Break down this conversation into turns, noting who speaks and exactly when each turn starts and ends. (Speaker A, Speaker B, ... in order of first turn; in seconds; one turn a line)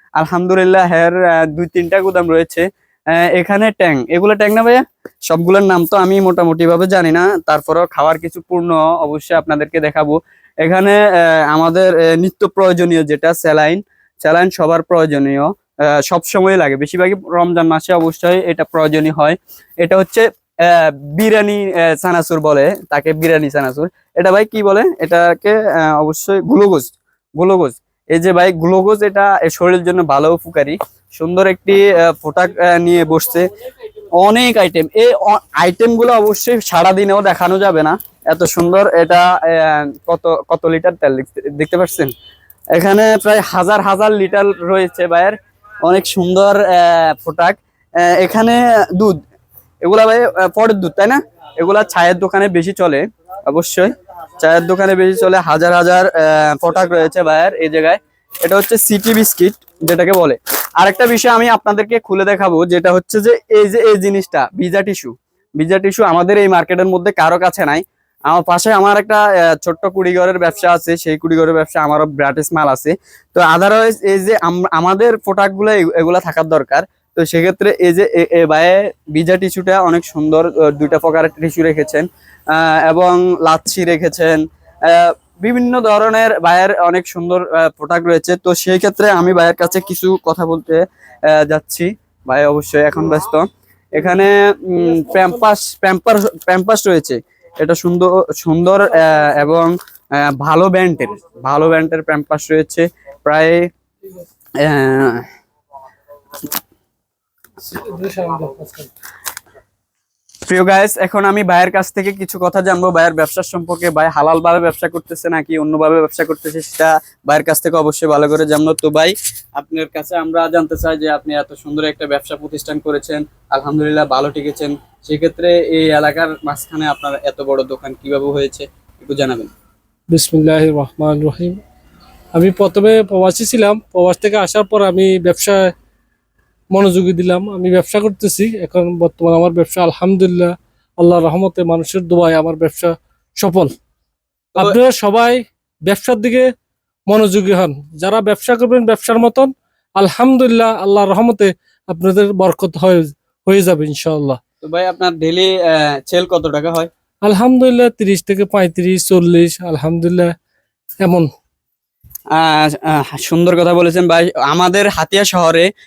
Speaker A: 0.2-33.5
Speaker A: 34.2-42.1
Speaker A: 42.7-49.2
Speaker A: 49.8-103.7
Speaker A: 104.6-105.3
Speaker B: 107.6-108.9
Speaker A: 110.5-129.5
Speaker B: 130.1-131.6
Speaker B: 132.3-135.7
Speaker B: 136.7-143.7
Speaker B: 144.6-146.5
Speaker B: 147.1-154.4
Speaker A: 154.6-156.9
Speaker B: 157.2-160.3
Speaker B: 161.0-161.3
Speaker A: 162.3-165.7